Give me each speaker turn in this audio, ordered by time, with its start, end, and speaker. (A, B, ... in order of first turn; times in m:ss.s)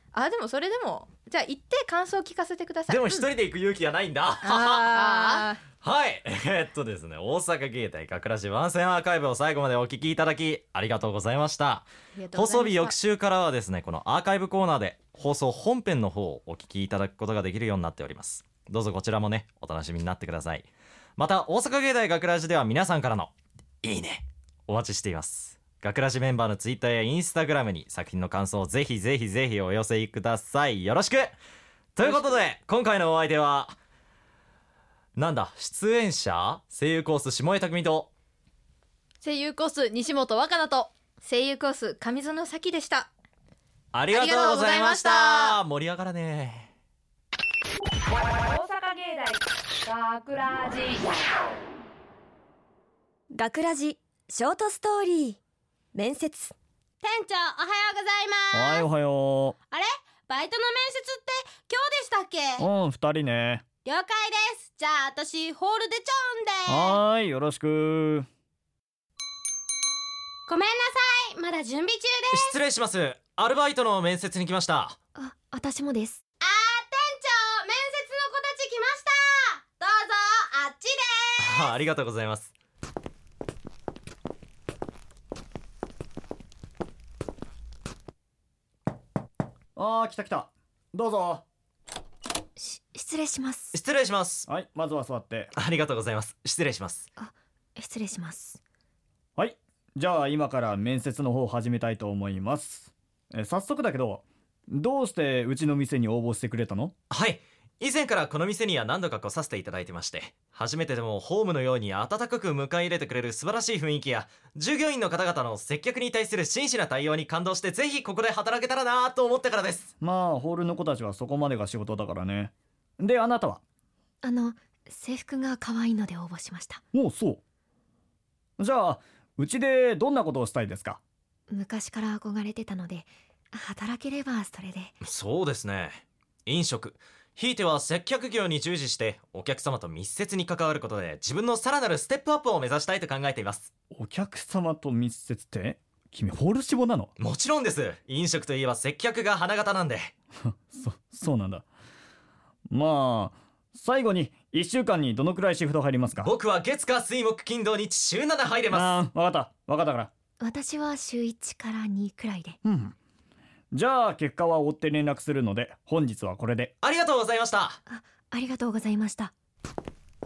0:00.1-0:03.0 A
0:02.9-0:05.0 B
0:04.4-0:05.6 A
0:04.9-0:05.5 C
0:05.8-0:31.4 B
0:12.2-0:13.0 A
0:32.0-0:33.8 B
0:32.0-0:32.4 C
0:35.2-0:38.1 B
0:39.2-0:40.9 C
0:41.2-0:43.1 A
0:43.9-0:46.7 B
0:44.1-0:45.6 A
0:48.5-0:49.3 D
0:49.9-0:51.0 D
0:53.3-0:55.4 E
0:55.9-0:56.5 E
0:57.0-0:58.9 F
0:58.5-0:59.6 G
0:59.7-1:02.7 F
1:02.6-1:03.6 G
1:03.8-1:07.0 F
1:06.7-1:08.3 G
1:10.5-1:12.6 F
1:12.3-1:15.0 B
1:15.2-1:16.2 E
1:16.4-1:21.7 F
1:21.4-1:22.5 B
1:29.8-1:31.4 G
1:32.6-1:33.8 E
1:33.7-1:34.5 B
1:34.5-1:35.5 G
1:35.6-1:37.1 B
1:37.2-1:38.6 E
1:39.4-1:46.9 G
1:47.1-1:59.9 B
2:00.0-2:03.6 G
2:04.2-2:06.8 E
2:06.9-2:07.4 G
2:08.6-2:11.0 G
2:11.5-2:14.9 E
2:15.0-2:23.7 B
2:23.9-2:27.1 G
2:27.2-2:30.1 B
2:30.5-2:31.6 G
2:32.7-2:36.3 G
2:36.2-2:39.0 B
2:38.7-2:40.1 G
2:40.4-2:42.6 E
2:42.6-2:43.0 G
2:43.7-2:46.7 G
2:46.8-2:47.8 B
2:47.9-2:49.3 E